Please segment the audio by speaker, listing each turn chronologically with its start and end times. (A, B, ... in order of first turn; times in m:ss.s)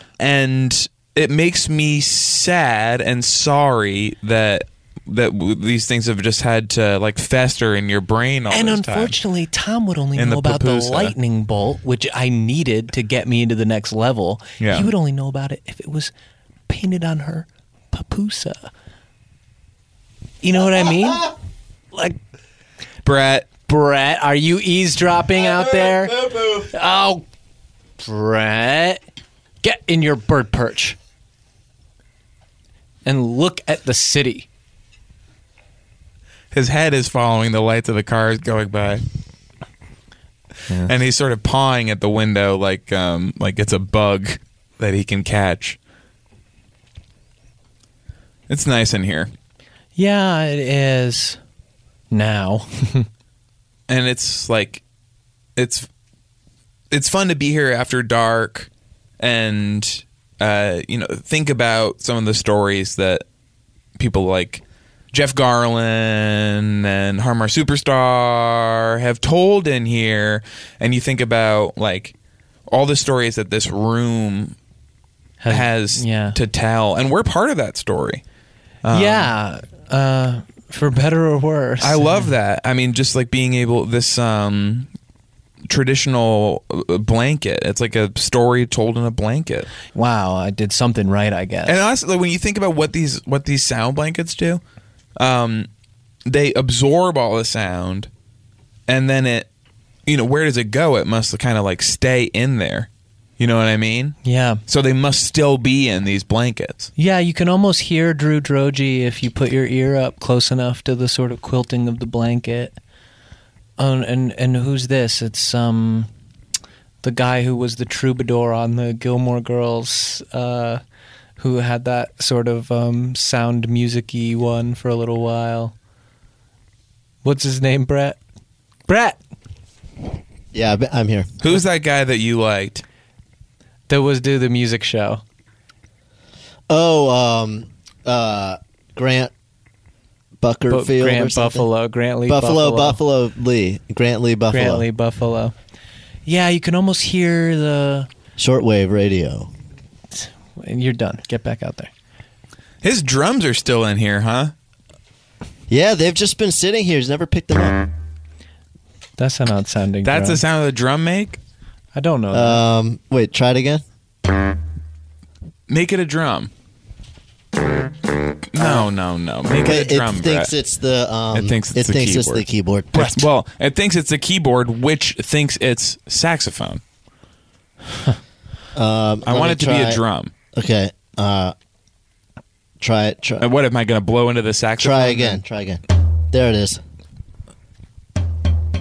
0:00.2-0:09.2 A
0:08.5-0:16.1 B
0:10.2-0:11.1 A
0:14.6-0:14.9 A
0:16.7-0:18.7 B
0:20.4-0:21.3 B
0:23.0-0:23.5 A
0:23.7-0:27.2 B
0:28.0-0:29.0 B
0:29.6-0:31.0 B
0:33.0-0:34.5 B
0:36.5-0:39.0 A
0:40.8-0:45.8 A
0:48.5-0:49.3 A
0:50.0-0:51.4 B
0:52.1-0:53.1 B
0:53.9-0:54.8 A
0:55.6-0:55.9 A
0:56.9-0:58.7 A
0:59.2-1:03.2 A
1:04.0-1:12.1 A
1:12.7-1:14.6 A
1:15.4-1:16.4 B
1:15.5-1:18.2 A
1:18.8-1:19.3 A
1:18.9-1:22.3 B
1:21.8-1:24.9 A
1:25.7-1:29.7 A
1:29.9-1:31.8 B
1:31.7-1:34.6 A
1:35.2-1:35.7 A
1:36.3-1:38.1 A
1:38.9-1:39.5 A
1:40.1-1:42.9 A
1:43.4-1:46.9 A
1:44.2-1:44.6 B
1:47.0-1:52.8 B
1:53.8-1:56.1 B
1:57.0-2:00.8 B
2:01.4-2:05.7 B
2:07.2-2:08.2 B
2:08.9-2:09.2 B
2:10.5-2:11.3 C
2:11.4-2:12.8 A
2:13.9-2:15.2 B
2:16.7-2:19.3 C
2:20.4-2:21.7 C
2:20.7-2:23.0 B
2:22.3-2:24.8 C
2:24.5-2:25.5 B
2:26.3-2:28.1 B
2:28.4-2:29.5 C
2:30.1-2:31.9 B
2:32.8-2:34.5 A
2:35.7-2:37.9 C
2:39.2-2:40.4 B
2:40.0-2:41.4 A
2:41.9-2:42.6 B
2:42.3-2:43.8 C
2:45.7-2:46.5 A
2:48.5-2:50.5 A
2:49.5-2:53.3 C
2:51.3-2:56.8 A
2:58.8-3:00.0 C
2:59.3-3:00.3 A
3:00.5-3:01.5 C
3:02.8-3:03.5 C
3:03.4-3:05.4 A
3:04.8-3:06.8 C